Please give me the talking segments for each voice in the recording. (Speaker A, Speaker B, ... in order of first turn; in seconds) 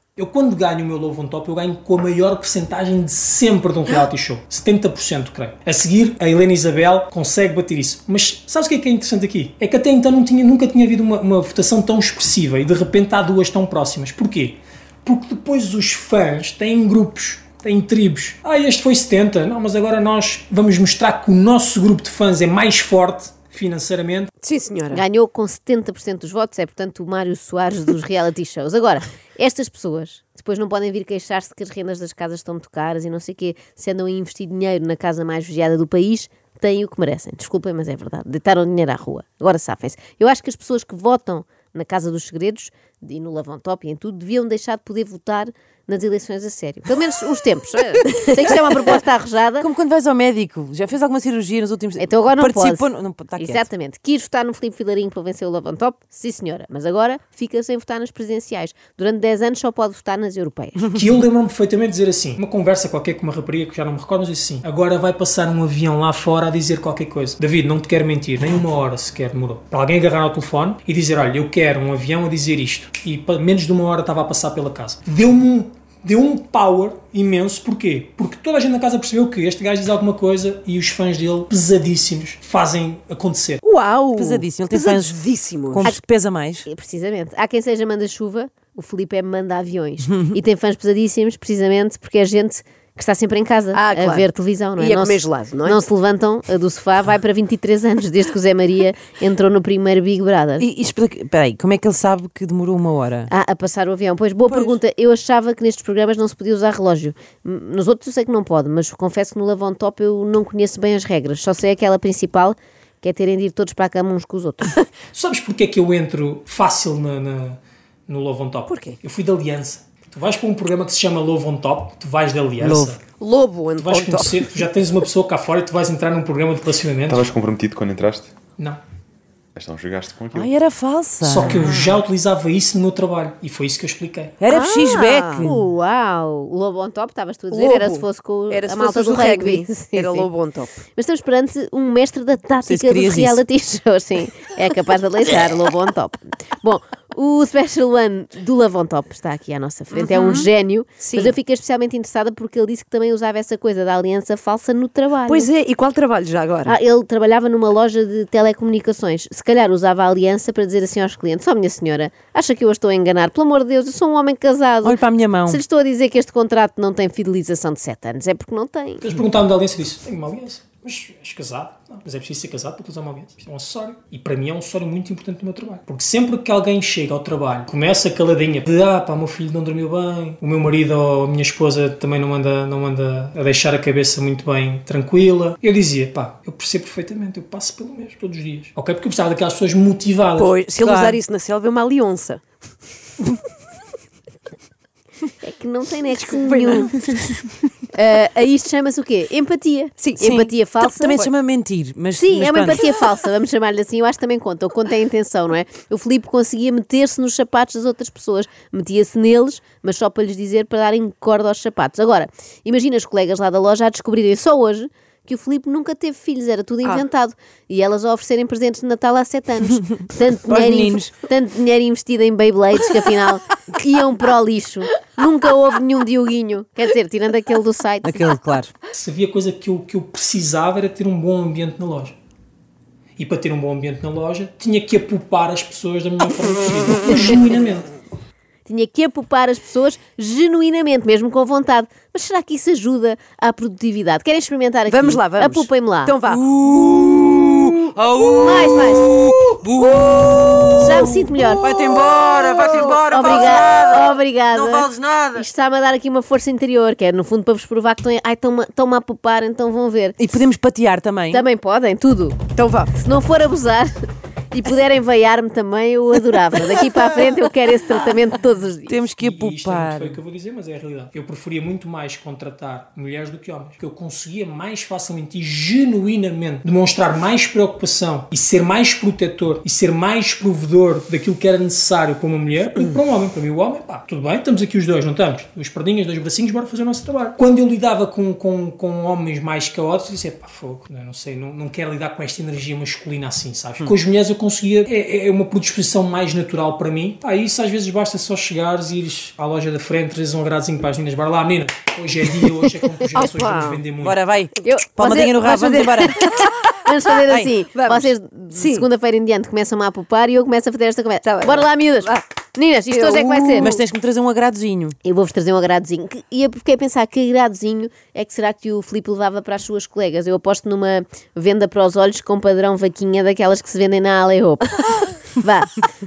Speaker A: 0.2-24.3, 60.9-83.6, 115.1-123.0, 123.8-127.3, 131.2-134.4, 169.0-190.6, 228.9-232.2, 233.2-237.9, 269.2-304.2
Speaker B: 24.4-25.0, 83.6-86.0, 93.7-95.8, 118.7-119.0, 123.2-124.5, 131.5-131.9, 134.5-135.5, 137.5-140.8, 149.9-150.5, 151.0-151.3, 155.3-156.8, 190.4-192.4, 196.2-197.2, 200.0-200.3, 244.9-246.5, 262.5-262.9, 303.1-303.8, 307.7-308.9, 311.2-312.2, 312.9-313.8
Speaker C: 24.9-49.7, 52.0-52.9, 53.4-60.9, 86.7-100.7, 103.3-114.8, 135.4-140.3, 141.0-155.5, 156.7-169.2, 195.4-197.0, 197.9-201.3, 202.2-228.3, 238.7-246.1, 248.4-249.2, 250.8-251.6, 253.0-260.2, 261.3-262.4, 262.9-263.9, 264.5-269.0, 304.6-313.8, 315.0-324.8, 325.3-325.8
Speaker D: 49.6-53.6, 84.1-85.2, 85.7-86.7, 100.6-103.3, 122.6-123.0, 130.3-131.6, 134.4-135.6, 142.7-143.4, 164.8-165.6, 190.8-191.2, 200.2-202.8, 220.5-221.2, 228.0-228.8, 246.3-255.4, 260.2-261.5, 268.9-270.2, 304.0-306.2, 313.6-315.0
Speaker E: 127.1-128.3, 129.6-130.5